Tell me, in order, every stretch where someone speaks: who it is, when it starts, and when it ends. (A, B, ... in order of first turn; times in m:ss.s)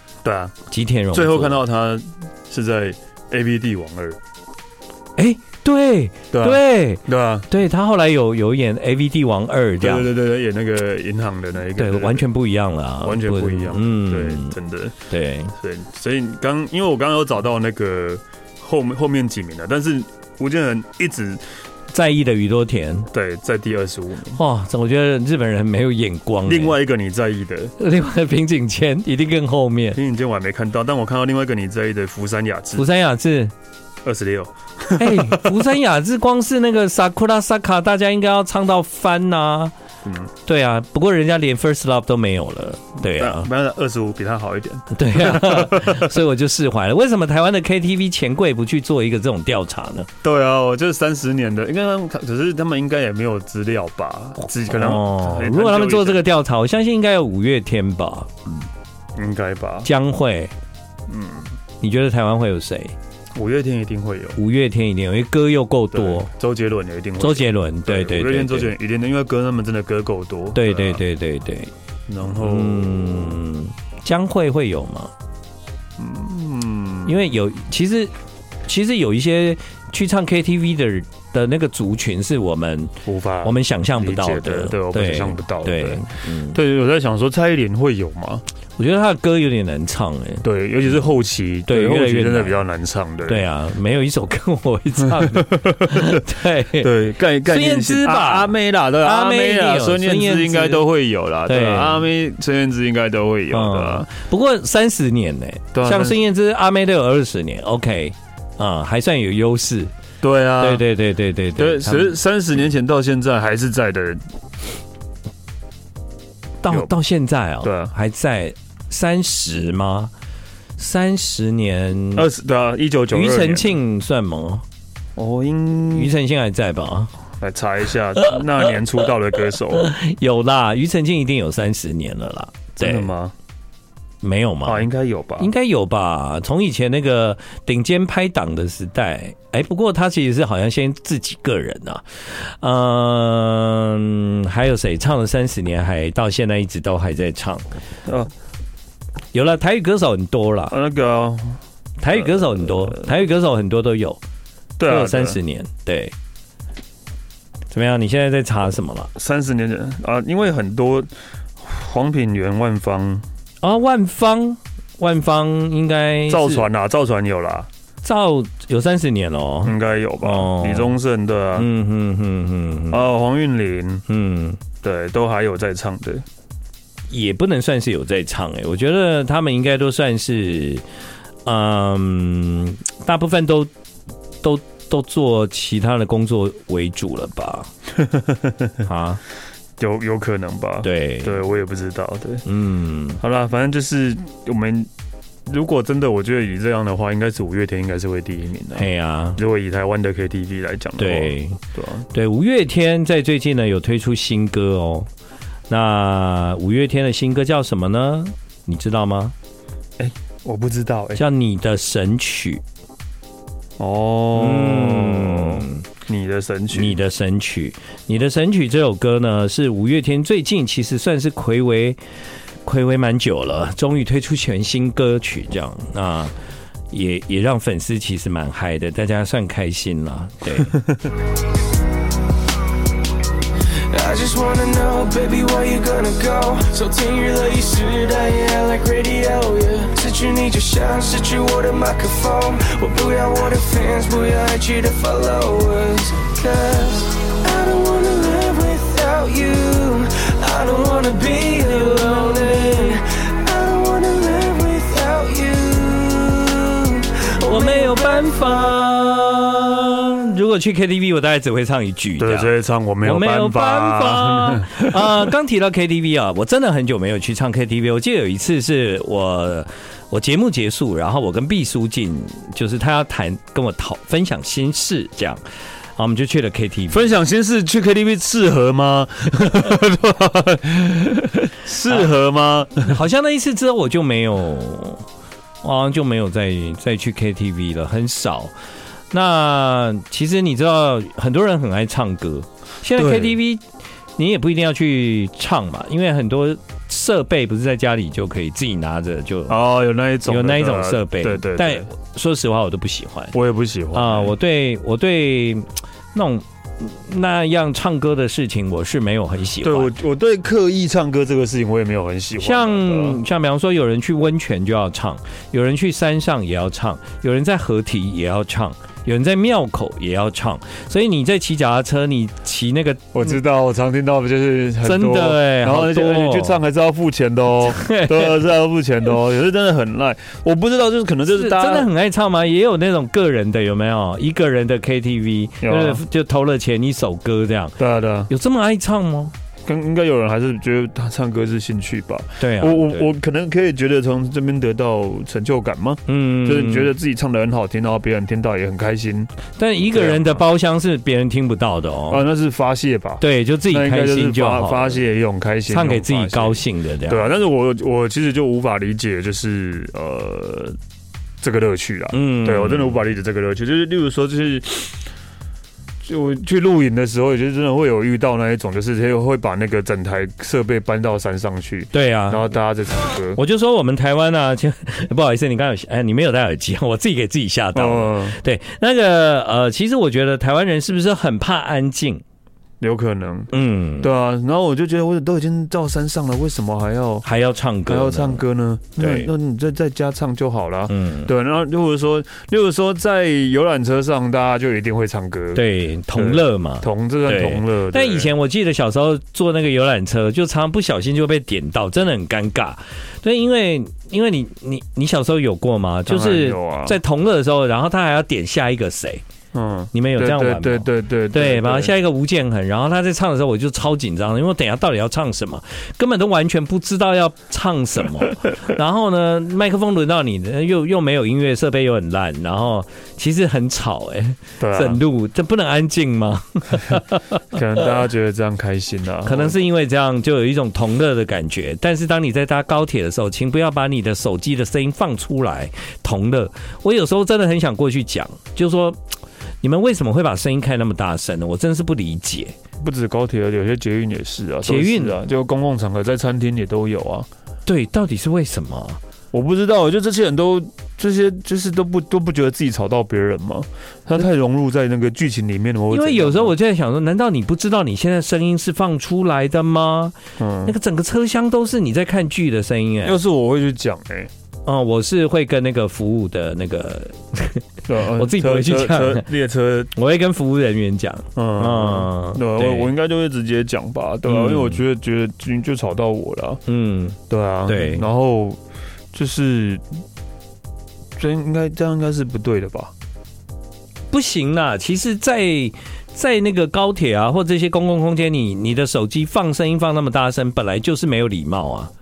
0:00.2-0:00.6 A
0:00.7-0:01.6 B
0:01.1-0:04.2 A
0:05.2-0:10.1 B
0:06.3-0:07.5 A
0:09.8-0:12.3 A
0:11.8-0:14.6 B
0:13.0-0:15.0 A
0:15.1-0:15.5 B
0:15.6-0:21.4 A
0:21.9-0:23.1 B
0:23.1-0:24.4 A
0:24.4-0:26.8 B
0:26.5-0:27.8 A
0:27.8-0:30.0 B
0:30.0-0:32.9 A
0:32.8-0:33.5 B
0:34.0-0:35.6 A
0:35.0-0:39.7 B
0:40.0-0:40.3 A
0:40.5-0:43.5 B
0:43.0-0:46.2 A
0:44.9-0:50.1 B
0:50.2-0:56.2 A
0:54.7-0:58.6 B
0:59.2-0:59.9 A
0:59.8-1:00.5 B
1:01.1-1:01.5 A
1:01.8-1:03.0 B
1:03.4-1:04.4 A
1:04.4-1:06.3 B
1:05.9-1:11.0 A
1:07.2-1:08.7 B
1:10.6-1:11.7 B
1:12.1-1:13.4 A
1:12.3-1:15.1 B
1:16.0-1:17.1 A
1:17.1-1:18.1 B
1:18.7-1:26.6 B
1:23.1-1:28.4 A
1:28.8-1:30.4 B
1:30.4-1:33.4 A
1:31.7-1:32.6 B
1:33.3-1:36.9 B
1:35.1-1:44.1 A
1:37.4-1:40.8 B
1:41.5-1:42.1 B
1:43.5-1:49.9 B
1:45.7-1:46.2 A
1:50.2-1:50.8 A
1:50.6-1:52.2 B
1:51.6-1:54.2 A
1:56.6-2:00.1 B
1:57.6-1:57.9 A
2:00.8-2:02.3 B
2:02.2-2:03.8 A
2:03.1-2:04.6 B
2:05.2-2:06.1 A
2:05.9-2:07.1 B
2:07.4-2:09.9 A
2:09.8-2:13.1 B
2:12.8-2:13.3 A
2:14.2-2:14.9 B
2:14.6-2:15.5 A
2:15.4-2:27.6 B
2:28.1-2:28.3 A
2:29.3-2:30.8 B
2:30.7-2:31.6 A
2:32.0-2:34.2 B
2:32.1-2:33.1 A
2:34.8-2:35.4 A
2:34.9-2:36.1 B
2:37.7-2:39.1 B
2:39.2-2:43.2 A
2:43.6-2:46.7 B
2:46.3-2:47.7 A
2:48.0-2:51.0 B
2:49.6-2:51.7 A
2:51.6-2:53.0 B
2:52.9-2:54.0 A
2:54.1-2:54.6 B
2:54.8-2:56.2 A
2:57.1-3:00.8 B
3:01.4-3:03.7 B
3:04.4-3:07.7 B
3:08.0-3:08.7 A
3:08.8-3:09.2 B
3:09.8-3:12.4 A
3:10.8-3:11.4 B
3:12.4-3:13.2 B
3:13.2-3:14.9 A
3:15.5-3:22.1 A
3:18.8-3:19.4 B
3:21.0-3:21.6 B
3:22.1-3:25.1 B
3:25.7-3:29.4 B
3:30.0-3:31.2 A
3:31.2-3:32.6 B
3:33.8-3:37.0 A
3:34.4-3:35.8 B
3:36.7-3:42.0 B
3:42.6-3:46.3 B
3:46.9-3:50.8 B
3:53.9-4:18.3 C
4:17.4-4:22.5 B
4:22.2-4:25.3 A
4:23.0-4:35.4 B
4:36.0-4:37.1 B
4:36.9-4:43.0 A
4:41.9-4:42.1 B
4:42.8-4:45.0 B
4:45.6-4:48.5 B
4:49.1-4:53.6 B
4:53.0-4:53.4 A
4:54.2-4:59.6 B
4:59.5-5:01.9 A
5:00.3-5:03.4 B
5:03.3-5:04.3 A
5:03.9-5:09.9 B
5:09.6-5:13.2 A
5:12.4-5:23.3 B
5:23.1-5:31.9 A
5:24.8-5:26.6 B
5:27.7-5:28.4 B
5:31.3-5:37.8 B
5:35.6-5:36.0 A
5:37.8-5:38.3 A
5:38.3-5:39.3 B
5:39.7-5:49.3 A
5:42.4-5:43.1 B
5:46.1-5:46.9 B
5:49.6-5:52.2 B
5:49.9-5:50.4 A
5:52.1-6:00.8 A
5:53.2-5:55.0 B
5:55.7-5:57.2 B
6:01.4-6:05.0 A
6:02.1-6:03.0 B
6:06.0-6:13.4 A
6:11.9-6:12.4 B
6:13.3-6:22.2 B
6:17.7-6:18.4 A
6:22.8-6:27.2 A
6:23.5-6:24.1 B
6:27.2-6:28.4 B
6:27.9-6:38.3 A
6:29.0-6:29.3 B
6:30.9-6:31.3 B
6:35.6-6:49.2 B
6:46.1-6:47.0 A
6:49.5-6:51.9 A
6:49.9-7:07.2 B
7:04.6-7:05.0 A
7:07.5-7:09.6 A
7:09.2-7:19.0 B
7:19.6-7:22.6 B
7:22.8-7:27.3 A
7:24.6-7:25.2 B
7:27.7-7:29.0 B
7:29.3-7:36.5 A
7:35.9-7:43.2 B
7:40.4-7:40.7 A
7:43.0-7:44.3 A
7:44.7-7:49.2 B
7:47.9-7:49.9 A
7:50.0-7:52.9 B
7:51.4-7:56.6 A
7:54.3-7:54.8 B
7:56.7-7:58.1 B
7:57.3-7:58.6 A
7:59.1-7:59.8 A
8:01.2-8:02.9 A
8:04.1-8:11.9 B